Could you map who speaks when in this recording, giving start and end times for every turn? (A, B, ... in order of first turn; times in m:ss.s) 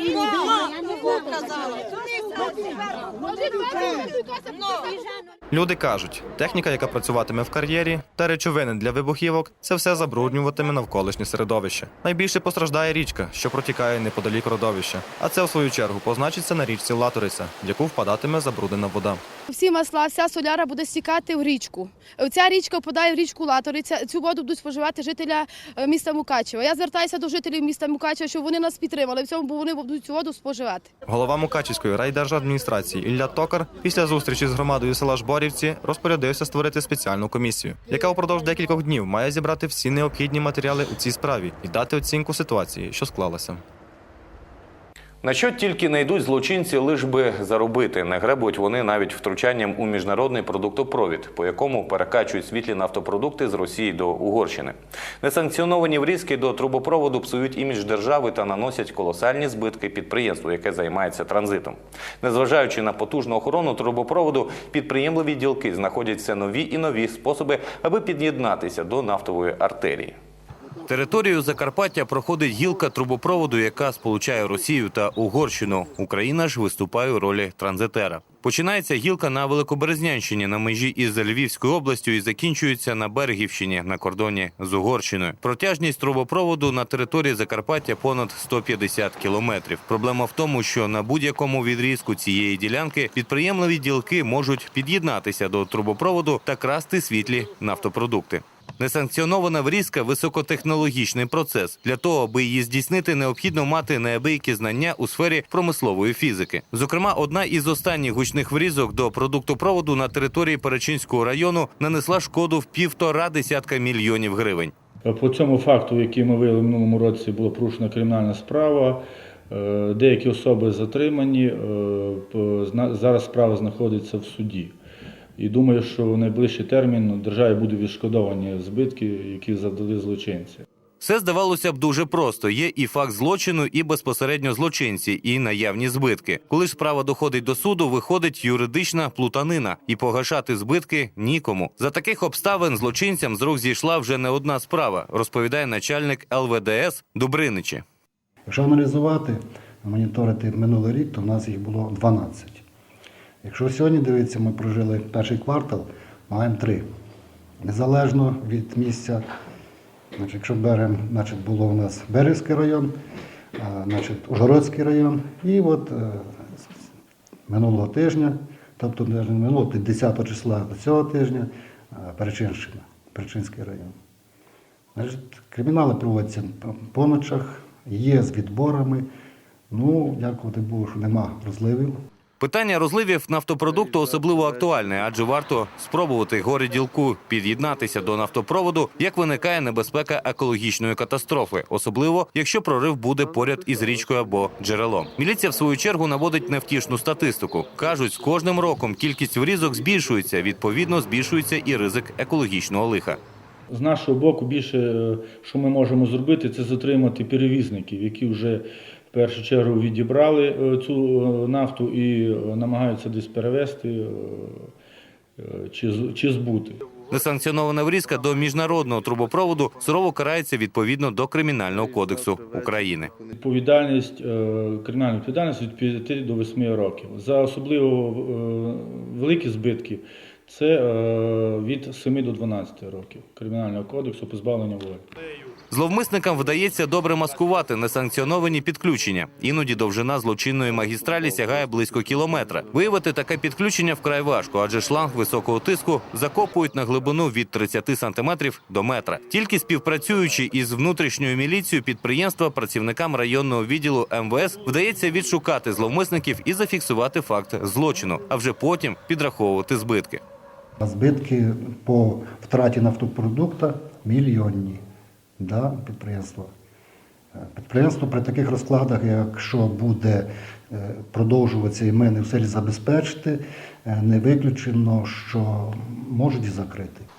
0:05.5-0:19.2 A
0:19.5-0:30.9 B
0:31.1-0:43.6 A
0:45.2-1:10.2 C
1:10.9-1:54.7 C
1:55.1-2:04.8 D
2:05.4-2:10.6 D
2:11.0-2:27.8 C
2:28.5-2:32.6 E
2:33.4-2:36.9 E
2:37.6-2:39.3 E
2:40.2-2:43.0 E
2:43.6-2:46.6 E
2:47.5-2:54.0 E
2:55.0-2:59.1 E
2:59.7-3:02.0 E
3:02.4-3:23.2 C
3:23.7-3:34.7 D
3:35.4-3:36.8 D
3:37.1-3:43.1 C
3:43.4-3:55.0 D
3:55.7-4:20.2 C
4:20.8-4:24.8 E
4:25.4-4:26.5 E
4:27.4-4:37.1 E